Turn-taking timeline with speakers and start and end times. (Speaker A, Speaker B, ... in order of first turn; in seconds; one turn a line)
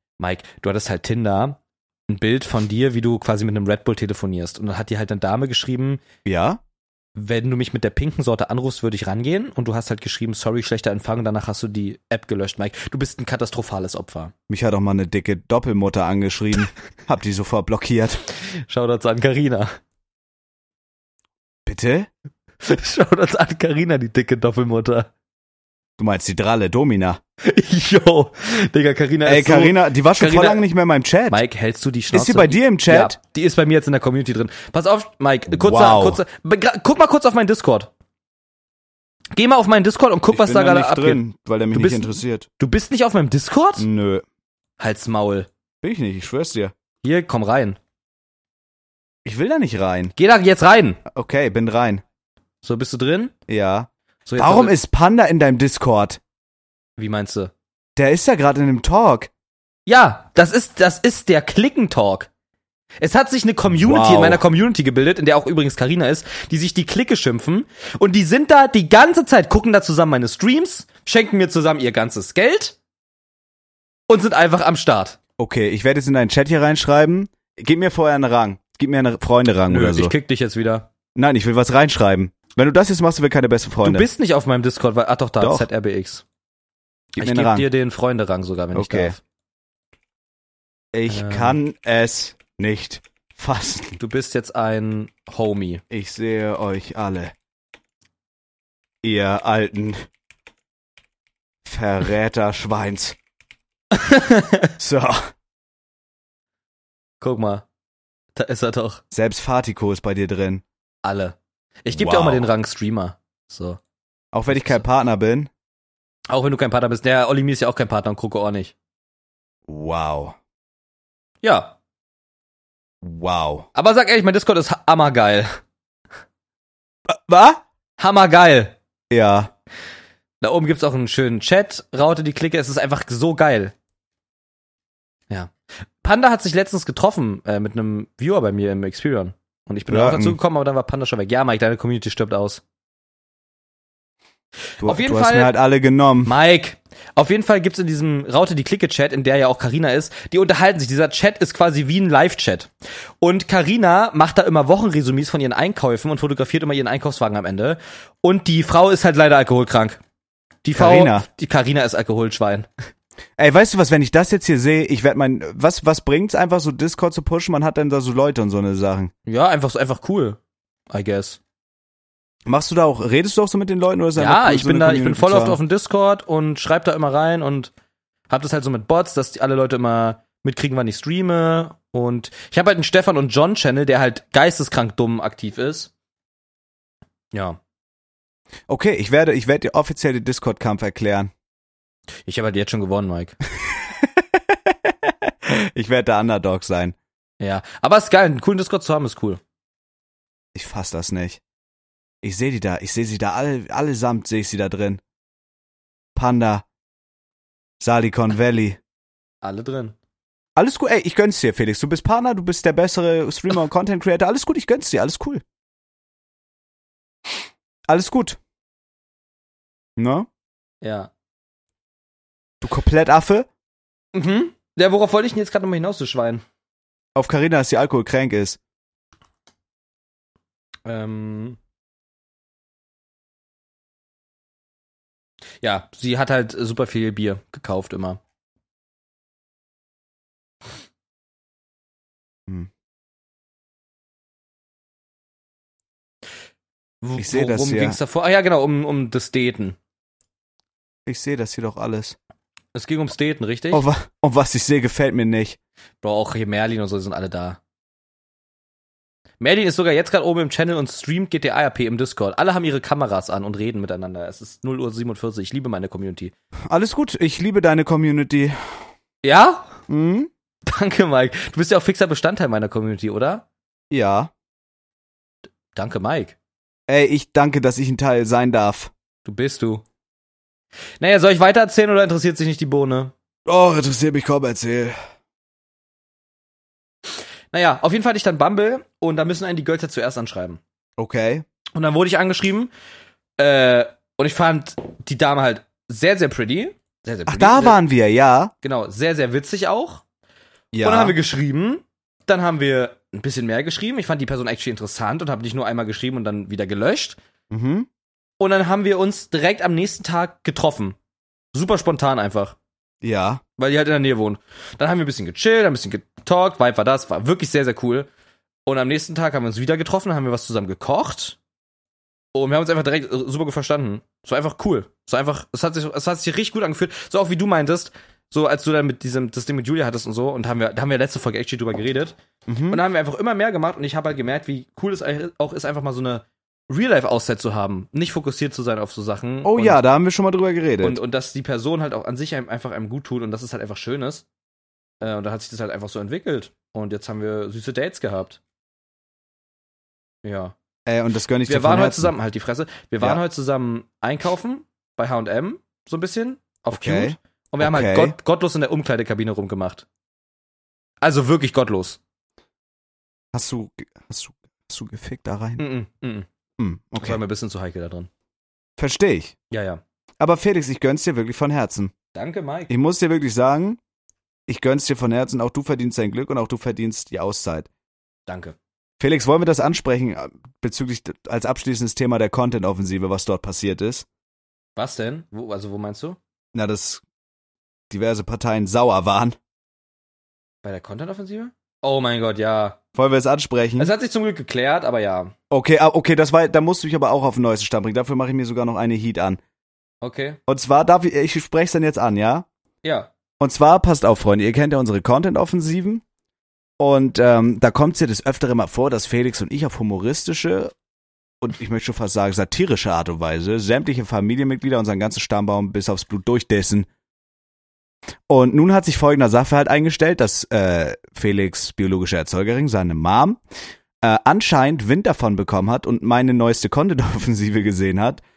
Speaker A: 0.2-1.6
Speaker A: 2.1-6.0
Speaker B: 6.2-6.6
Speaker A: 7.2-14.3
Speaker B: 14.5-18.2
Speaker A: 18.4-19.8
Speaker B: 21.6-22.1
Speaker A: 22.6-25.1
Speaker B: 26.0-27.2
Speaker A: 27.4-30.6
Speaker B: 29.2-31.4
Speaker A: 31.3-37.9
Speaker B: 32.1-33.1
Speaker B: 35.5-36.2
Speaker A: 39.3-41.2
Speaker B: 40.3-42.5
Speaker A: 41.7-43.9
Speaker B: 43.8-44.2
Speaker A: 44.8-45.5
Speaker B: 45.8-46.7
Speaker A: 47.0-47.8
Speaker B: 49.2-50.1
Speaker A: 50.1-51.0
Speaker B: 51.1-52.0
Speaker A: 52.6-53.3
Speaker B: 53.5-56.2
Speaker A: 54.2-54.8
Speaker A: 57.0-57.5
Speaker B: 58.0-59.3
Speaker A: 59.9-62.3
Speaker A: 63.0-72.8
Speaker B: 63.8-64.4
Speaker A: 74.1-75.2
Speaker B: 75.4-80.1
Speaker A: 79.7-80.9
Speaker B: 81.2-84.1
Speaker A: 83.8-86.2
Speaker B: 85.4-85.7
Speaker B: 87.1-87.7
Speaker A: 87.2-89.2
Speaker B: 88.7-89.1
Speaker B: 90.9-94.0
Speaker A: 91.1-91.6
Speaker A: 94.0-95.8
Speaker B: 95.9-97.3
Speaker B: 99.0-100.1
Speaker B: 101.6-103.2
Speaker A: 103.9-104.7
Speaker B: 104.8-105.3
Speaker A: 107.2-107.7
Speaker A: 108.3-109.0
Speaker B: 109.1-110.6
Speaker A: 111.0-113.8
Speaker B: 111.9-112.5
Speaker B: 114.3-115.5
Speaker A: 114.5-114.8
Speaker A: 116.3-118.7
Speaker B: 119.7-120.4
Speaker A: 121.4-121.8
Speaker B: 123.0-123.7
Speaker A: 123.7-125.5
Speaker B: 127.1-127.6
Speaker A: 128.0-128.8
Speaker B: 129.1-129.5
Speaker A: 130.4-133.7
Speaker A: 135.3-142.6
Speaker B: 139.9-140.4
Speaker A: 144.8-145.5
Speaker B: 144.8-146.3
Speaker A: 146.2-152.7
Speaker A: 153.2-160.0
Speaker A: 160.6-162.7
Speaker B: 160.8-161.2
Speaker B: 163.4-169.1
Speaker A: 169.2-170.4
Speaker A: 170.9-171.4
Speaker B: 172.4-175.6
Speaker A: 174.2-177.7
Speaker A: 178.3-185.9
Speaker A: 187.3-187.6
Speaker B: 188.7-191.3
Speaker A: 192.2-193.4
Speaker B: 193.6-196.9
Speaker A: 197.4-199.4
Speaker B: 200.5-201.4
Speaker B: 202.2-205.0
Speaker B: 206.1-206.6
Speaker B: 207.8-208.8
Speaker A: 209.4-209.9
Speaker B: 210.6-215.4
Speaker B: 217.9-218.4
Speaker B: 220.0-220.3
Speaker A: 220.8-221.1
Speaker B: 222.6-223.5
Speaker A: 224.1-226.4
Speaker B: 227.1-228.6
Speaker A: 230.8-231.6
Speaker A: 235.6-238.2
Speaker A: 247.0-249.8
Speaker B: 247.2-248.0
Speaker B: 251.1-252.2
Speaker A: 252.7-253.8
Speaker B: 253.7-255.6
Speaker A: 256.0-257.6
Speaker A: 259.4-266.3
Speaker B: 266.7-268.5
Speaker A: 269.2-269.8
Speaker B: 269.9-270.3
Speaker A: 270.6-273.4
Speaker B: 273.9-274.3
Speaker A: 275.7-276.4
Speaker B: 276.9-278.9
Speaker A: 279.2-279.8
Speaker A: 281.0-283.1
Speaker B: 283.4-284.9
Speaker A: 287.5-290.6
Speaker B: 291.0-291.4
Speaker A: 291.7-292.7
Speaker A: 293.4-297.8
Speaker B: 297.3-298.5
Speaker A: 298.6-300.0
Speaker B: 300.7-301.1
Speaker A: 300.8-307.2
Speaker B: 307.5-307.9
Speaker A: 308.4-311.0
Speaker A: 311.5-312.6
Speaker B: 313.0-313.4
Speaker A: 313.6-318.1
Speaker A: 318.7-321.4
Speaker A: 322.3-332.2
Speaker B: 332.5-332.8
Speaker A: 332.7-339.8
Speaker B: 339.4-341.0
Speaker A: 340.8-344.2
Speaker A: 345.0-348.4
Speaker A: 350.2-350.5
Speaker B: 350.9-352.1
Speaker A: 351.5-359.9
Speaker B: 356.7-358.1
Speaker A: 361.0-362.0
Speaker B: 363.3-365.6
Speaker A: 365.6-366.3
Speaker B: 366.6-367.2
Speaker A: 367.0-368.1
Speaker B: 368.8-369.3
Speaker A: 369.5-369.8
Speaker B: 370.2-371.9
Speaker A: 372.1-372.7
Speaker B: 372.7-373.8
Speaker B: 374.5-377.7
Speaker A: 378.3-378.6
Speaker B: 379.0-384.1
Speaker A: 384.8-386.2
Speaker B: 386.5-387.0
Speaker B: 387.9-389.4
Speaker A: 390.6-392.8
Speaker B: 392.9-393.9
Speaker A: 393.8-395.3
Speaker B: 395.5-399.4
Speaker A: 400.0-400.4
Speaker B: 400.5-402.4
Speaker A: 402.8-403.1
Speaker B: 403.4-406.0
Speaker B: 406.8-410.7
Speaker B: 411.4-416.9
Speaker B: 418.3-423.4
Speaker B: 424.0-428.2